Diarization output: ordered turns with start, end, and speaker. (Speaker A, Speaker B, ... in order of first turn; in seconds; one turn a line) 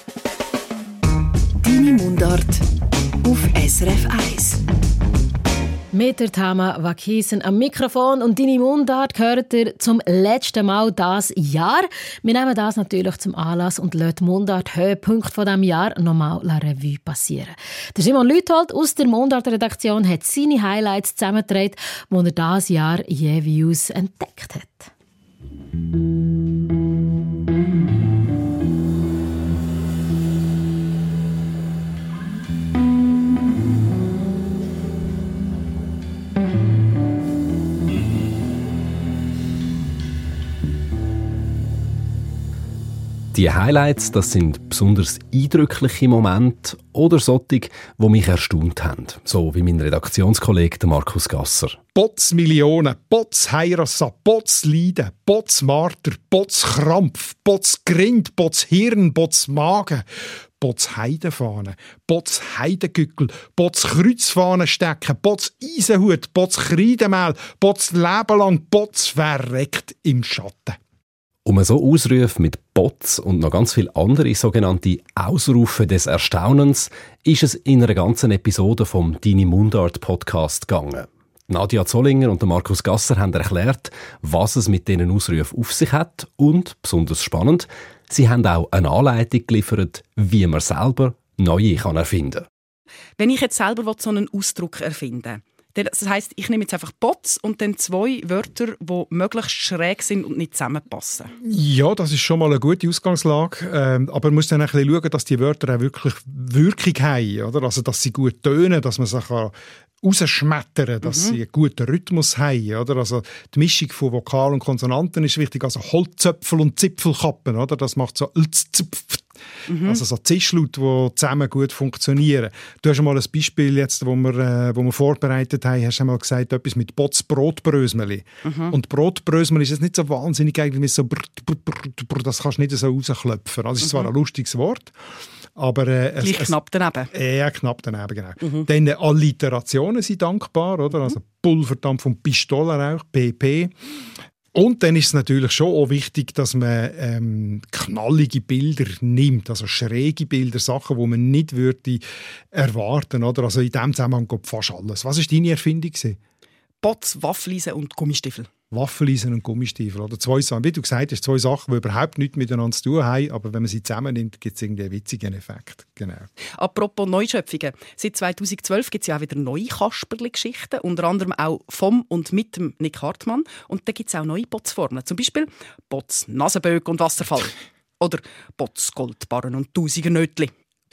Speaker A: 1.6-2.6
Speaker A: 3.2-4.6
Speaker B: 5.9-24.9
Speaker C: 43.3-51.8
Speaker D: 52.0-60.1
Speaker D: 60.6-70.8
Speaker C: 71.5-92.5
Speaker E: 93.2-101.3
Speaker D: 101.4-134.9
Speaker E: 111.0-111.4
Speaker E: 119.7-120.0
Speaker E: 128.4-128.8
Speaker E: 133.8-134.1
Speaker D: 135.6-136.6
Speaker E: 136.2-137.1
Speaker D: 137.1-143.7
Speaker E: 138.4-138.7
Speaker D: 144.5-152.0
Speaker D: 152.5-156.2
Speaker E: 156.8-158.5
Speaker D: 158.7-166.3
Speaker E: 166.4-180.5